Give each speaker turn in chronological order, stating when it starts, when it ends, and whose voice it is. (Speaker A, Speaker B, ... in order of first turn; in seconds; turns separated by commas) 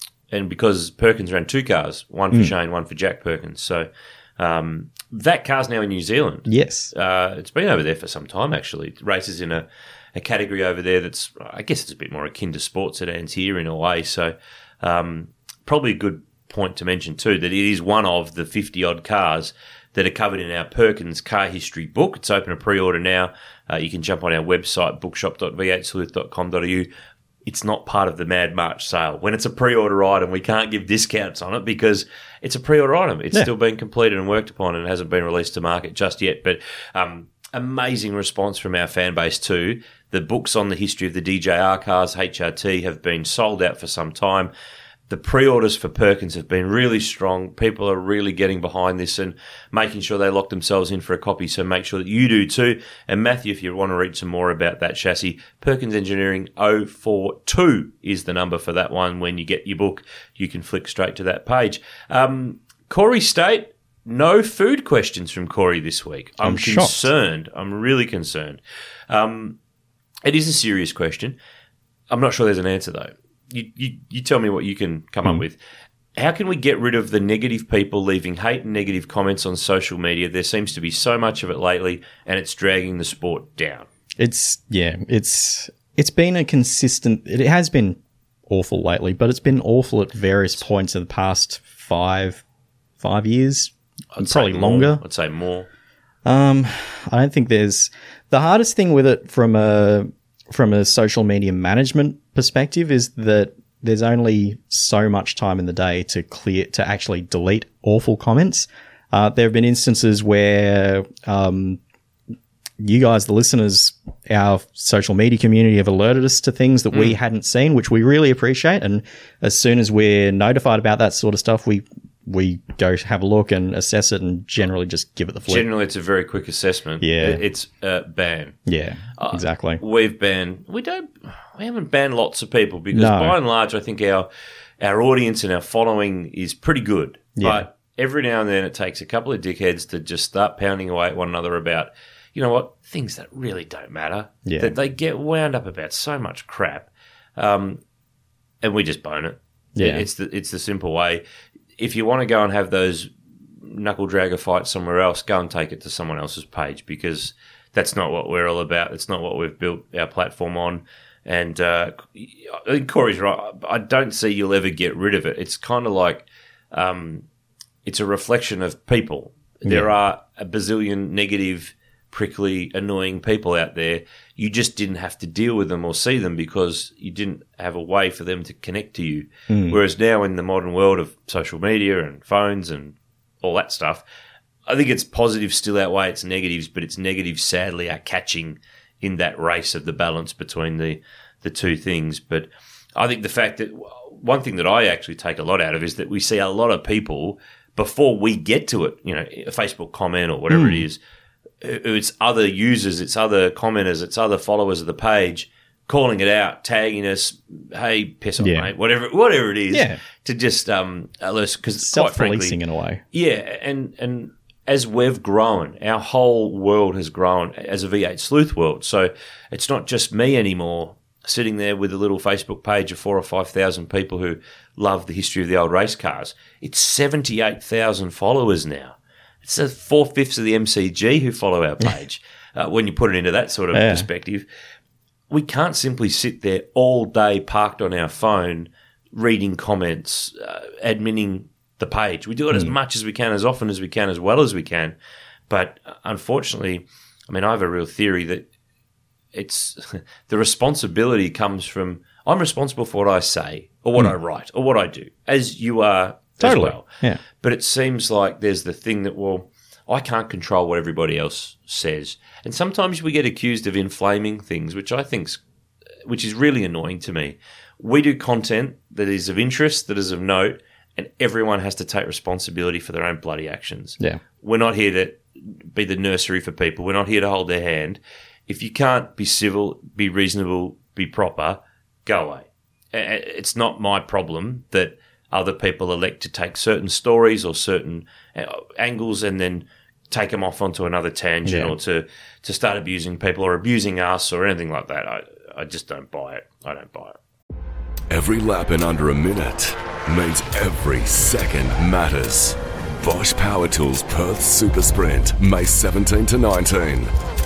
Speaker A: 0.3-26.9, Speaker B: 6.5-6.9, Speaker A: 27.4-44.5, Speaker A: 45.1-69.6, Speaker B: 66.4-67.0, Speaker A: 70.2-71.3, Speaker A: 72.1-75.6, Speaker A: 76.2-83.9, Speaker B: 84.2-92.4, Speaker B: 93.0-95.0, Speaker A: 94.1-95.7, Speaker B: 96.2-111.8, Speaker B: 112.8-125.7, Speaker A: 125.5-128.6, Speaker B: 127.0-127.4, Speaker B: 128.7-129.8, Speaker A: 129.2-134.3, Speaker B: 132.9-133.3, Speaker A: 134.8-147.8, Speaker B: 137.3-137.7, Speaker B: 144.4-144.7, Speaker A: 148.6-151.2, Speaker B: 149.8-150.1, Speaker A: 151.8-167.2, Speaker A: 167.8-184.0, Speaker B: 179.5-179.8, Speaker A: 184.7-201.0, Speaker B: 200.5-200.8, Speaker A: 201.6-212.6, Speaker B: 208.4-208.7, Speaker B: 209.7-210.0, Speaker B: 211.8-213.0, Speaker A: 213.1-234.4, Speaker B: 233.7-234.1, Speaker A: 235.3-244.9, Speaker A: 245.5-248.5, Speaker A: 249.3-265.4, Speaker B: 256.4-257.2, Speaker A: 266.0-297.2, Speaker B: 291.4-291.7, Speaker C: 298.1-307.1